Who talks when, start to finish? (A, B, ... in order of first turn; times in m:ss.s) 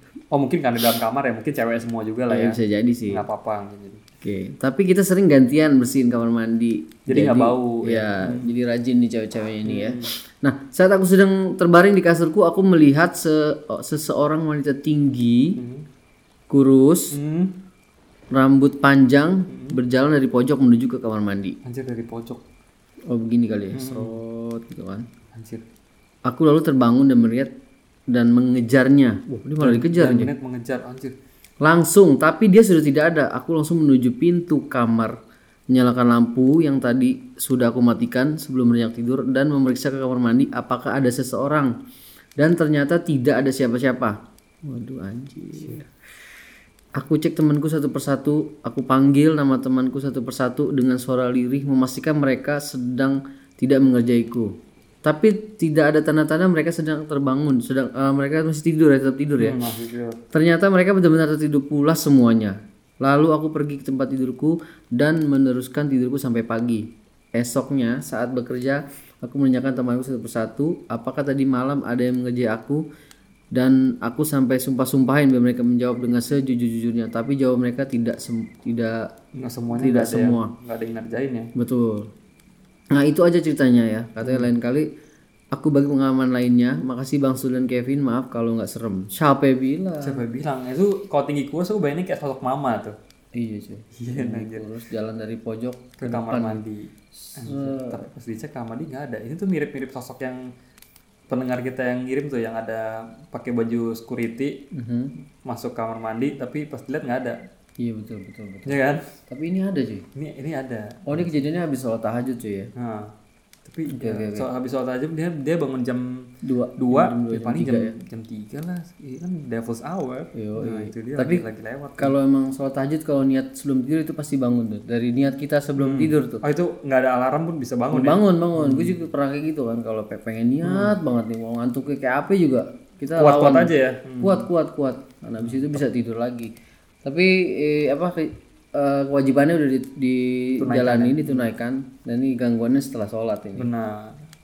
0:00.3-0:04.0 A
0:02.3-0:03.2 B
0:04.2-0:15.6 B
0:07.1-0:08.5 A
0:09.6-0:10.1 A
0:15.6-0:15.9 A
0:16.5-0:17.2 B
0:17.1-0:17.6 A
0:18.3-0:21.6 B
0:19.5-0:19.8 A
0:21.6-0:22.4 A
0:23.1-0:25.0 B
0:23.7-0:24.2 A
0:25.3-0:25.6 A
0:26.2-0:27.5 B
0:28.1-0:30.3 B
0:29.6-0:31.2 A
0:31.6-0:35.2 B
0:35.7-0:41.7 B
0:42.4-0:45.8 B
0:47.0-0:54.5 B
0:55.0-0:59.6 B
0:59.4-1:00.2 A
1:00.3-1:12.8 B
1:13.5-1:19.1 B
1:19.3-1:21.5 A
1:19.7-1:20.5 B
1:21.5-1:22.1 B
1:23.0-1:24.9 B
1:24.2-1:24.5 A
1:25.5-1:30.2 B
1:30.0-1:33.0 A
1:33.3-1:36.6 B
1:33.9-1:34.7 A
1:36.0-1:40.4 A
1:37.2-1:38.0 B
1:41.3-1:44.6 A
1:44.7-1:45.1 B
1:45.4-1:47.4 A
1:47.8-1:48.8 B
1:48.6-1:49.0 A
1:49.3-1:50.0 B
1:50.1-1:51.2 A
1:51.0-1:52.7 B
1:52.8-1:53.1 A
1:53.6-2:02.1 A
1:54.0-1:54.5 B
1:56.4-1:57.9 B
2:00.3-2:01.4 B
2:02.0-2:06.4 B
2:05.8-2:09.0 A
2:07.9-2:16.5 B
2:10.6-2:11.0 A
2:13.2-2:14.5 A
2:15.4-2:15.8 A
2:17.0-2:23.7 B
2:20.6-2:21.5 A
2:23.6-2:24.2 A